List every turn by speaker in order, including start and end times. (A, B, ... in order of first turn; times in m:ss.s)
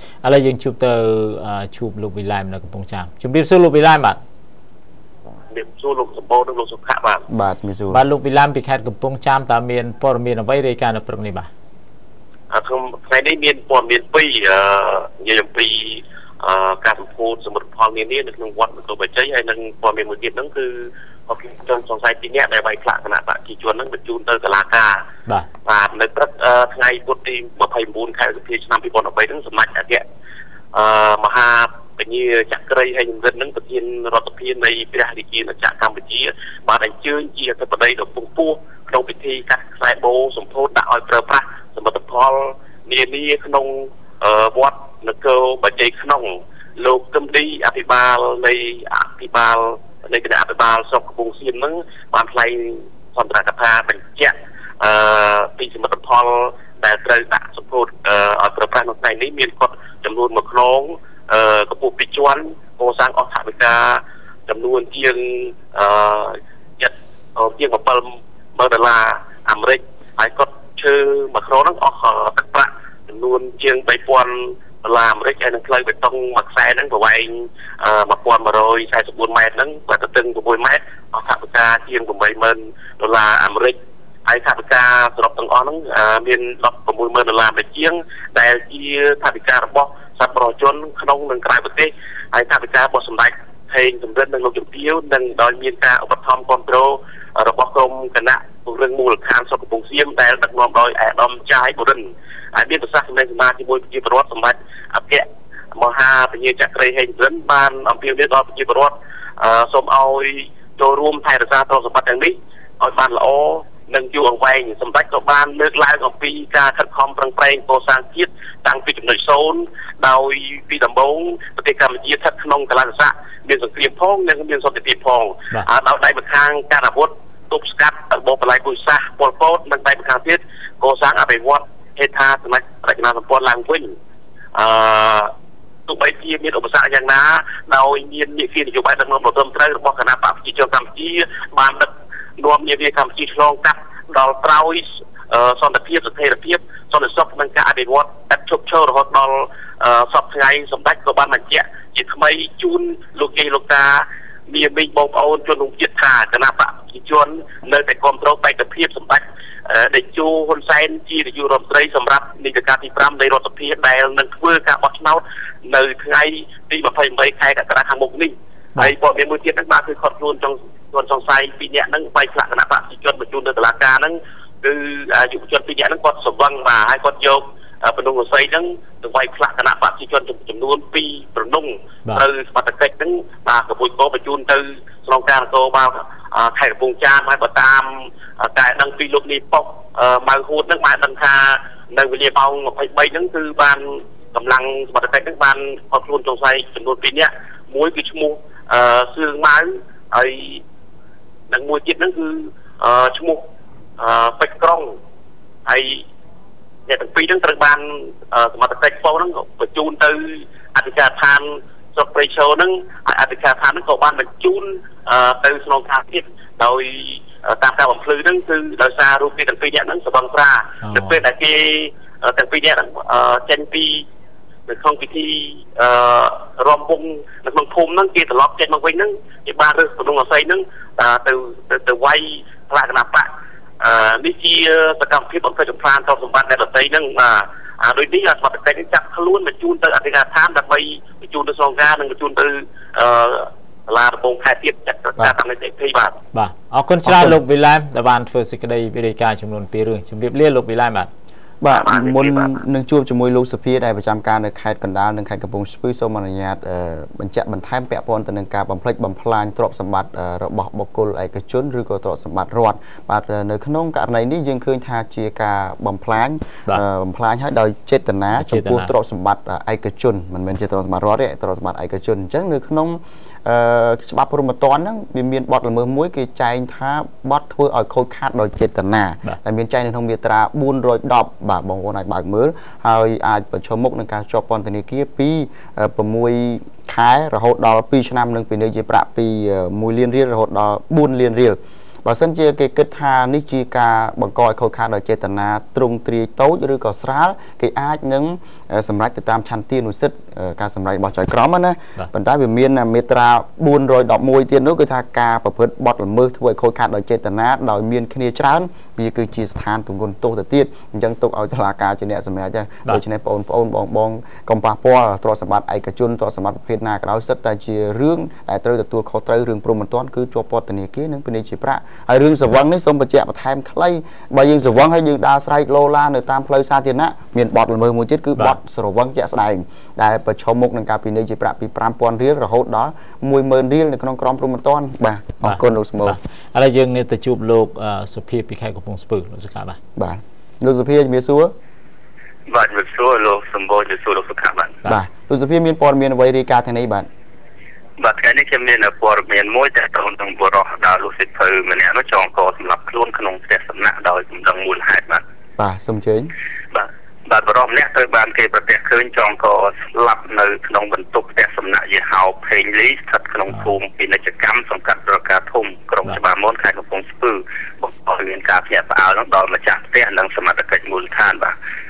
0:00.2-0:04.2 A
0:05.5-0:07.2 B
0:07.3-0:08.0 C
0:07.9-0:11.5 A
0:12.5-0:25.0 B
0:25.6-0:30.0 B
0:30.7-2:13.9 B
2:14.5-2:15.3 B
2:15.9-3:20.6 B
3:21.5-3:23.4 B
3:24.0-3:24.9 B
3:25.6-3:26.0 B
3:26.9-3:44.0 B
3:40.8-3:41.2 A
3:44.7-3:53.3 B
3:53.8-4:06.2 B
4:06.3-4:11.1 A
4:07.0-4:07.4 C
4:11.6-5:36.2 C
4:11.7-4:12.5 B
4:28.3-4:28.9 A
5:35.4-5:39.8 A
5:40.0-5:41.5 C
5:42.5-5:44.8 D
5:44.8-5:47.1 C
5:48.0-5:55.2 D
5:55.6-5:56.3 C
5:56.7-6:11.5 D